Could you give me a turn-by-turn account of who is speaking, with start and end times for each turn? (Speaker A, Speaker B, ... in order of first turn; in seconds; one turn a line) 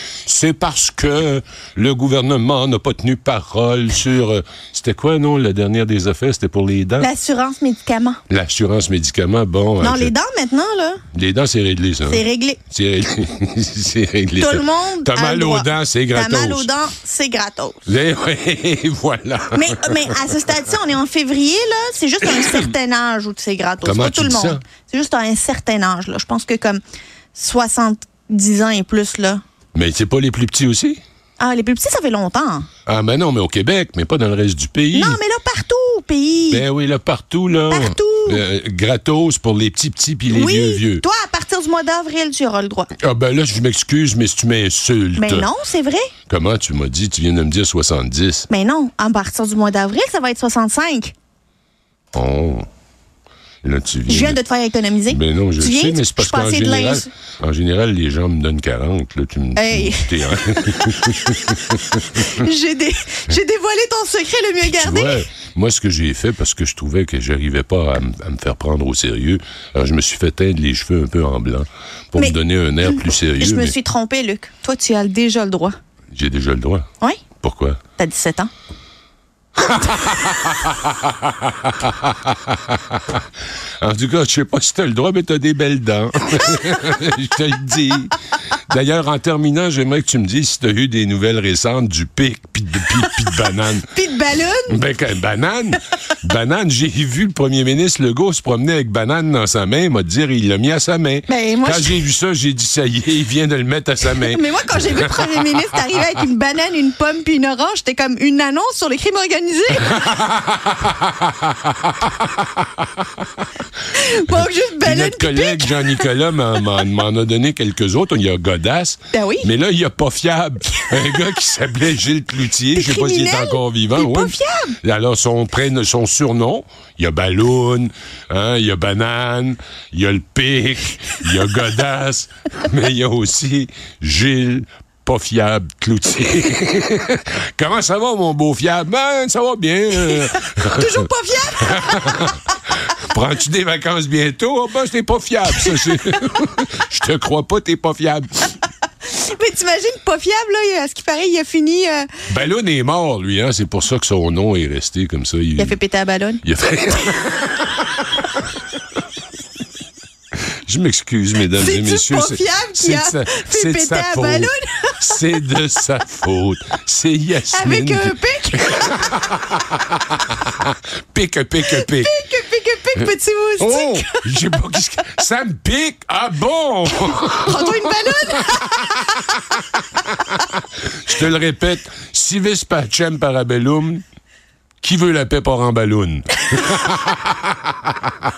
Speaker A: 0.2-7.1
Speaker B: 7.0-8.2
Speaker A: 8.3-10.1
Speaker B: 9.8-11.0
Speaker A: 11.1-16.7
Speaker B: 12.1-12.6
Speaker B: 14.4-17.9
Speaker A: 17.9-20.7
Speaker B: 19.5-26.8
Speaker A: 22.3-22.6
Speaker A: 23.8-24.6
Speaker B: 27.4-29.4
Speaker A: 29.7-31.0
Speaker B: 31.4-32.7
Speaker A: 32.9-35.2
Speaker B: 34.9-36.6
Speaker A: 36.5-41.0
Speaker B: 37.7-38.4
Speaker B: 40.3-42.9
Speaker A: 43.0-45.5
Speaker B: 45.2-46.1
Speaker A: 46.3-48.5
Speaker B: 48.5-51.1
Speaker A: 52.1-52.7
Speaker A: 53.6-54.4
Speaker B: 54.1-57.1
Speaker A: 55.1-62.3
Speaker B: 59.6-65.2
Speaker A: 64.6-73.8
Speaker B: 72.2-75.8
Speaker A: 76.1-76.9
Speaker A: 77.4-77.8
Speaker B: 78.0-78.5
Speaker A: 79.6-83.2
Speaker A: 83.8-93.9
Speaker B: 93.0-94.8
Speaker A: 94.7-106.2
Speaker B: 101.3-102.1
Speaker B: 104.0-110.2
Speaker A: 109.9-113.1
Speaker B: 113.9-116.1
Speaker A: 114.3-141.0
Speaker B: 119.1-119.5
Speaker B: 120.7-121.4
Speaker B: 122.7-124.8
Speaker B: 140.0-142.4
Speaker A: 141.6-142.4
Speaker A: 142.9-148.5
Speaker B: 145.6-146.2
Speaker B: 149.1-152.1
Speaker A: 152.3-155.8
Speaker B: 155.6-156.4
Speaker A: 156.4-158.1
Speaker A: 160.7-172.1
Speaker B: 161.5-165.4
Speaker B: 167.5-168.7
Speaker B: 171.7-174.3
Speaker A: 173.6-184.0
Speaker B: 177.0-179.4
Speaker A: 184.8-188.1
Speaker B: 186.6-186.9